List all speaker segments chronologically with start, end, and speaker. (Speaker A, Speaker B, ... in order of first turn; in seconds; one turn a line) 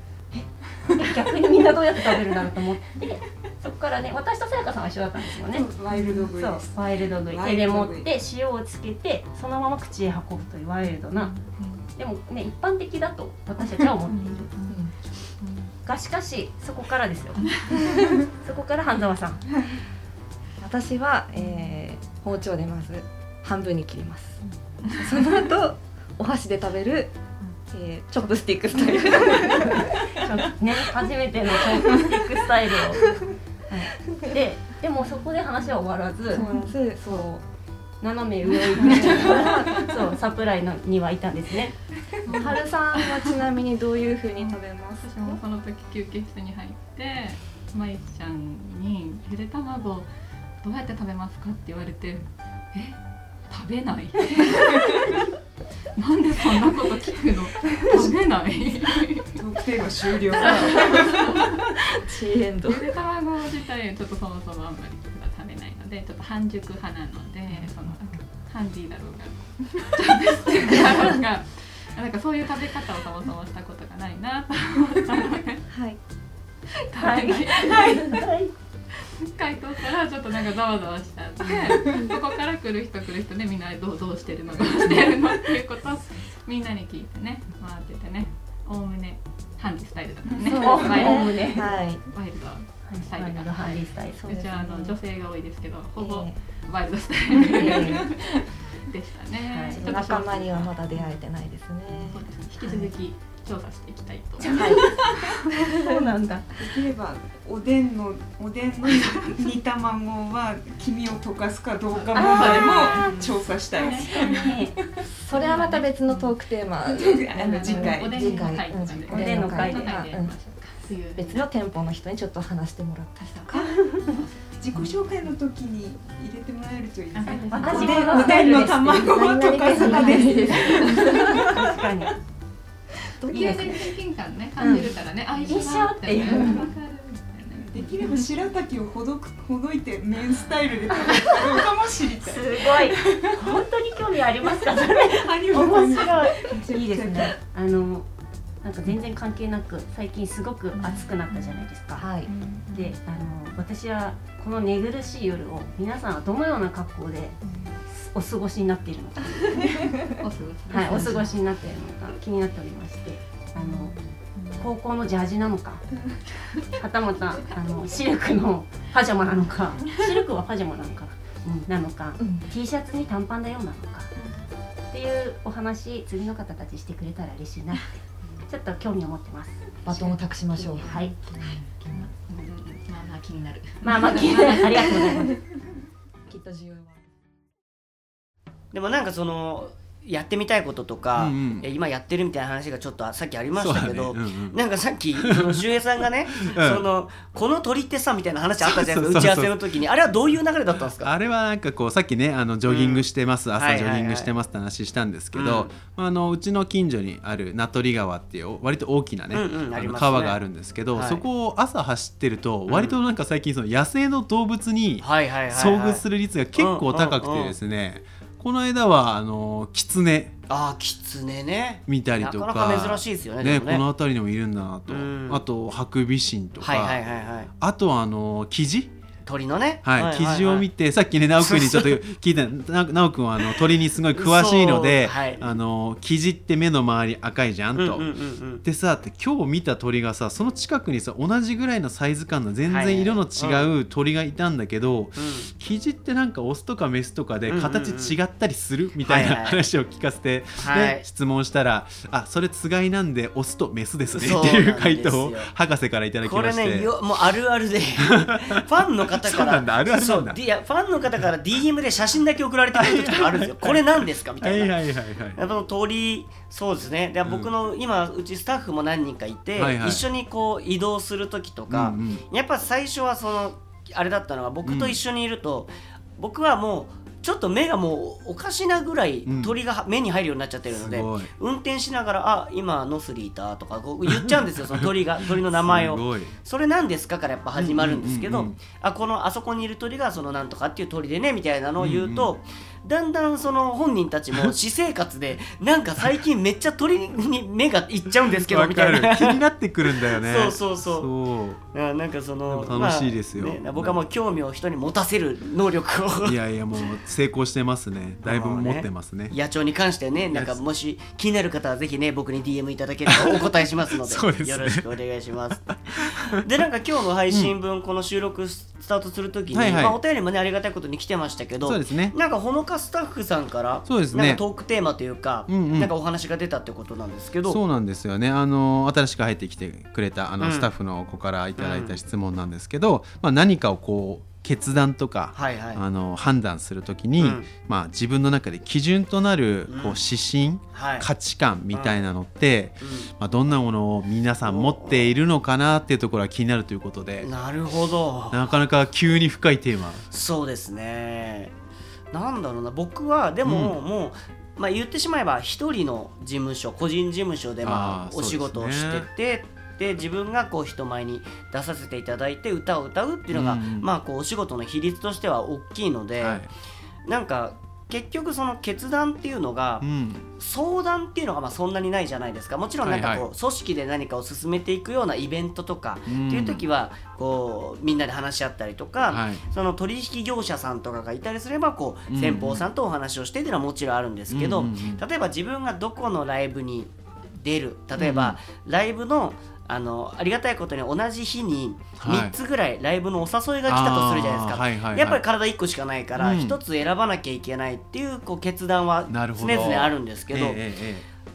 Speaker A: 0.9-11.3
Speaker B: 5.4-8.1
Speaker C: 11.4-11.8
Speaker A: 12.0-14.7
Speaker C: 14.1-14.7
Speaker C: 15.4-15.7
Speaker A: 15.8-19.4
Speaker D: 20.6-24.4
Speaker C: 21.4-21.7
Speaker D: 25.0-27.1
Speaker D: 27.7-30.0
Speaker A: 29.7-33.0
Speaker B: 31.9-32.1
Speaker A: 33.7-36.5
Speaker D: 36.3-37.4
Speaker A: 38.0-41.8
Speaker B: 38.8-39.1
Speaker D: 39.0-40.0
Speaker C: 42.2-43.3
Speaker D: 42.4-45.4
Speaker C: 44.4-50.1
Speaker C: 50.6-53.0
Speaker C: 53.5-55.3
Speaker C: 56.0-59.4
Speaker B: 57.8-58.1
Speaker B: 59.3-61.6
Speaker C: 60.3-61.5
Speaker D: 60.4-61.2
Speaker D: 62.0-62.9
Speaker C: 62.6-75.6
Speaker D: 75.7-76.0
Speaker C: 76.9-78.2
Speaker A: 77.0-78.5
Speaker C: 79.3-91.3
Speaker D: 90.4-92.0
Speaker A: 90.5-91.8
Speaker C: 92.1-93.6
Speaker A: 92.8-94.3
Speaker D: 94.1-95.0
Speaker C: 94.2-101.2
Speaker D: 96.0-96.3
Speaker D: 97.5-98.1
Speaker B: 97.6-97.8
Speaker A: 99.5-100.0
Speaker D: 99.8-102.9
Speaker C: 102.1-105.0
Speaker A: 104.4-106.5
Speaker D: 104.5-104.9
Speaker B: 104.9-105.3
Speaker B: 106.6-115.1
Speaker C: 111.9-114.6
Speaker A: 112.1-114.8
Speaker D: 115.2-120.4
Speaker C: 115.3-116.3
Speaker B: 116.8-118.6
Speaker C: 117.4-121.4
Speaker A: 118.9-120.1
Speaker A: 120.9-121.3
Speaker D: 121.2-123.5
Speaker B: 123.5-123.8
Speaker C: 124.0-124.9
Speaker B: 124.5-131.8
Speaker C: 127.1-128.8
Speaker A: 127.3-132.1
Speaker D: 127.7-128.1
Speaker D: 128.9-131.6
Speaker C: 133.2-138.4
Speaker A: 133.3-134.0
Speaker D: 133.3-133.8
Speaker D: 134.6-134.9
Speaker A: 135.4-136.7
Speaker B: 136.3-136.7
Speaker B: 137.5-143.6
Speaker A: 141.0-141.7
Speaker A: 142.2-148.1
Speaker B: 144.6-147.4
Speaker A: 148.6-152.1
Speaker C: 150.7-151.1
Speaker D: 152.0-152.3
Speaker C: 152.3-152.9
Speaker A: 152.7-157.3
Speaker A: 157.9-159.9
Speaker C: 160.2-161.4
Speaker D: 160.7-161.2
Speaker A: 160.7-163.9
Speaker C: 163.6-164.7
Speaker A: 164.6-165.8
Speaker A: 166.8-174.1
Speaker D: 172.2-172.5
Speaker A: 174.9-181.2
Speaker D: 179.8-182.1
Speaker C: 180.8-185.3
Speaker A: 183.8-185.4
Speaker D: 186.3-186.9
Speaker E: 188.7-201.1
Speaker F: 191.1-191.7
Speaker F: 193.5-194.6
Speaker F: 195.2-195.6
Speaker F: 196.4-196.8
Speaker F: 198.6-199.6
Speaker F: 201.0-220.4
Speaker E: 202.7-204.3
Speaker E: 205.3-205.7
Speaker E: 209.3-210.4
Speaker E: 210.9-211.2
Speaker E: 212.7-212.9
Speaker E: 215.0-216.0
Speaker E: 216.6-217.5
Speaker E: 220.5-223.8
Speaker F: 221.9-227.0
Speaker E: 224.9-225.4
Speaker E: 226.6-227.5
Speaker F: 227.6-228.9
Speaker E: 229.2-230.7
Speaker F: 229.8-238.1
Speaker E: 231.4-232.0
Speaker E: 234.1-235.5
Speaker E: 237.7-238.6
Speaker F: 238.6-256.9
Speaker E: 242.7-243.7
Speaker E: 245.2-245.5
Speaker E: 247.5-248.2
Speaker E: 249.0-249.6
Speaker E: 250.6-251.0
Speaker E: 254.1-255.5
Speaker E: 256.2-264.8
Speaker F: 258.2-260.4
Speaker F: 262.7-265.4
Speaker E: 265.4-301.1
Speaker F: 267.2-267.5
Speaker F: 269.6-270.1
Speaker F: 271.7-272.2
Speaker F: 274.6-275.0
Speaker F: 279.3-279.6
Speaker F: 280.7-281.3
Speaker F: 284.1-286.3
Speaker F: 287.6-288.6
Speaker F: 291.8-292.3
Speaker F: 298.2-301.6
Speaker E: 301.7-306.4
Speaker F: 302.5-304.0
Speaker F: 306.2-309.3
Speaker E: 308.2-327.6
Speaker F: 310.3-310.6
Speaker F: 313.1-314.9
Speaker F: 315.7-316.4
Speaker F: 319.5-320.0
Speaker F: 321.6-322.1
Speaker F: 323.9-324.4
Speaker F: 325.5-325.9
Speaker F: 327.4-347.3
Speaker E: 330.4-330.7
Speaker E: 331.6-332.0
Speaker E: 335.3-335.8
Speaker E: 337.2-337.5
Speaker E: 339.7-340.0
Speaker E: 340.7-341.1
Speaker E: 341.7-342.0
Speaker E: 342.8-343.1
Speaker E: 344.4-345.1
Speaker E: 347.2-348.4
Speaker F: 348.3-350.1
Speaker E: 350.1-351.5
Speaker E: 352.1-366.4
Speaker F: 353.4-353.8
Speaker F: 357.6-359.1
Speaker F: 363.3-363.9
Speaker F: 366.2-366.5
Speaker E: 367.1-369.9
Speaker F: 369.8-370.3
Speaker E: 370.4-400.6
Speaker F: 372.8-373.3
Speaker F: 376.1-376.6
Speaker F: 379.0-379.4
Speaker F: 382.1-382.7
Speaker F: 384.3-385.0
Speaker F: 388.0-388.4
Speaker F: 392.0-392.4
Speaker F: 393.7-395.2
Speaker F: 396.2-396.6
Speaker F: 399.1-401.1